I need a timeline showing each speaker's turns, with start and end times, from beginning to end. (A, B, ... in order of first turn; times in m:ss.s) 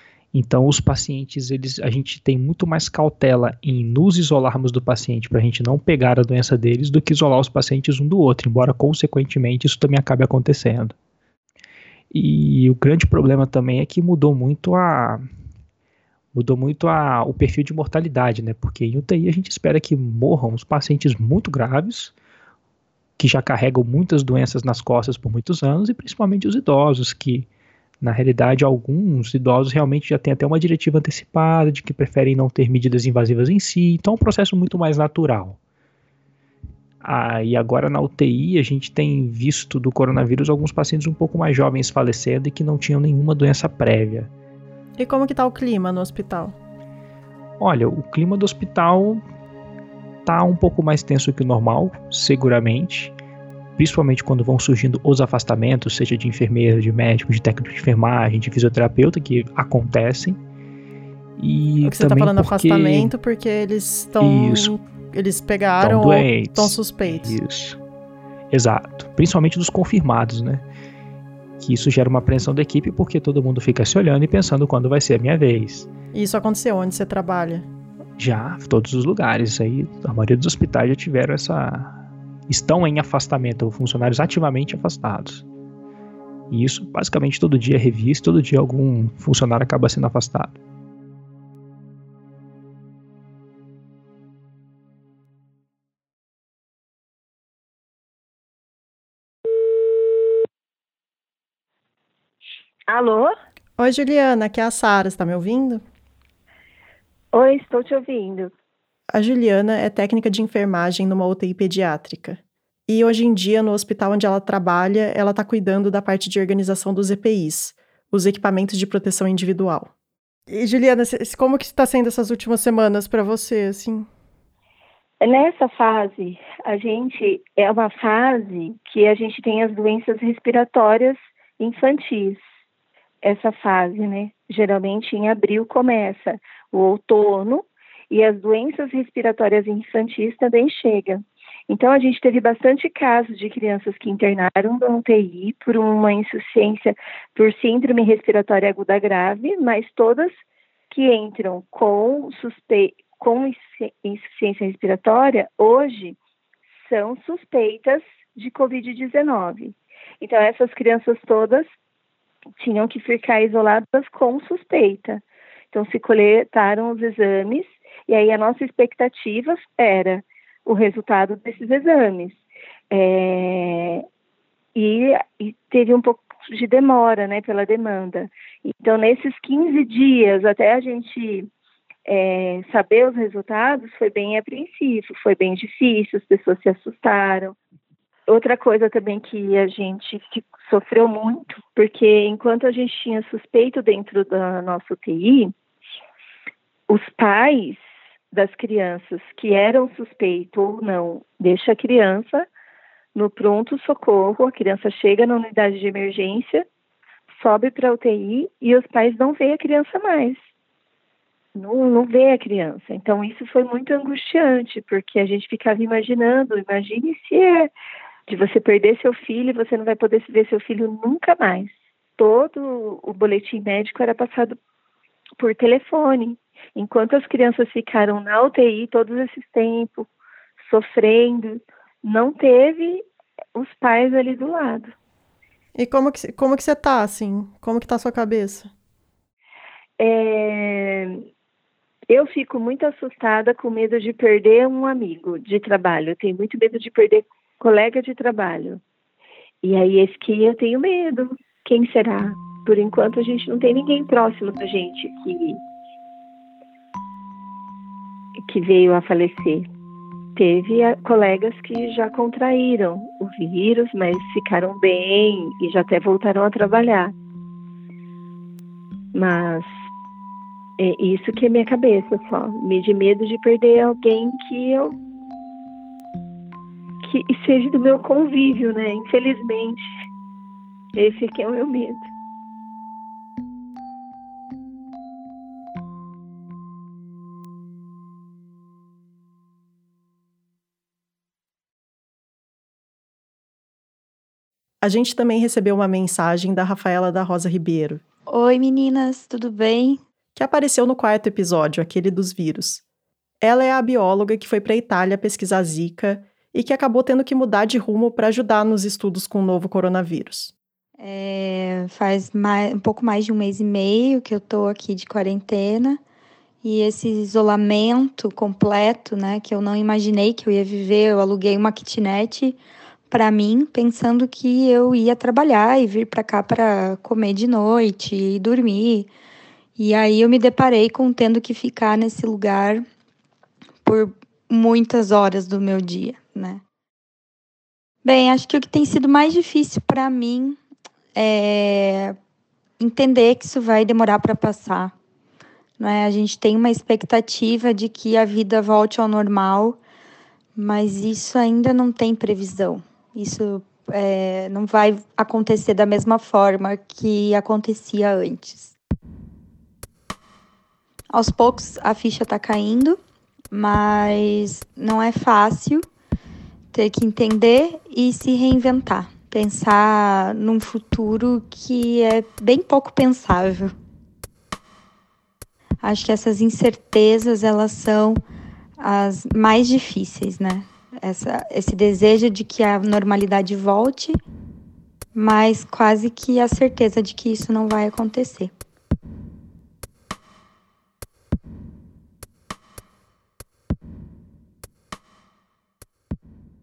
0:00.3-0:10.9 A
0:12.1-0:15.2 A
0:16.3-0:22.1 A
0:23.2-0:27.5 A
0:28.0-0:35.6 A
0:37.0-0:44.3 A
0:45.0-0:46.5 B
0:47.6-0:49.2 A
0:50.2-0:53.1 A
0:53.8-1:00.4 A
1:01.4-1:03.1 A
1:01.8-1:07.4 B
1:04.2-1:04.8 A
1:05.8-1:07.8 A
1:08.5-1:10.6 A
1:11.6-1:15.9 A
1:16.1-1:17.7 B
1:18.2-1:25.4 A
1:26.5-1:30.6 A
1:42.9-1:43.3 C
1:43.8-1:45.8 B
1:47.3-1:48.5 C
1:49.1-1:59.9 B
2:00.5-2:04.1 B
2:05.2-2:12.4 C
2:13.2-2:30.3 C
2:30.9-2:36.2 C
2:36.8-2:41.7 C
2:42.6-2:54.0 C
2:54.7-3:01.5 C
3:02.0-3:07.6 C
3:08.3-3:15.5 C
3:16.9-3:22.5 C
3:23.1-3:26.6 C
3:27.3-3:30.4 C
3:31.5-3:37.7 C
3:38.3-3:44.6 C
3:45.4-3:50.1 C
3:50.6-3:53.0 C
3:53.5-3:54.9 C
3:55.8-3:58.7 B
4:00.0-4:01.2 C
4:02.1-4:08.8 C
4:09.6-4:15.6 C
4:18.5-4:19.7 C
4:20.4-4:27.1 C
4:29.1-4:29.7 C
4:30.8-4:34.9 C
4:37.0-4:39.8 C
4:40.9-4:42.1 C
4:54.8-4:58.0 B
4:58.3-5:00.0 D
5:00.3-5:02.8 B
5:03.4-5:10.5 B
5:11.0-5:16.0 D
5:16.6-5:22.6 D
5:23.1-5:29.1 D
5:29.8-5:32.8 D
5:33.8-5:36.6 D
5:38.0-5:40.6 D
5:41.1-5:42.2 D
5:42.8-5:44.9 D
5:45.8-5:49.8 D
5:50.6-5:58.7 D
6:01.1-6:03.0 D
6:03.5-6:05.8 D
6:06.7-6:13.7 D
6:15.8-6:18.2 D
6:18.8-6:24.2 D
6:25.1-6:28.5 D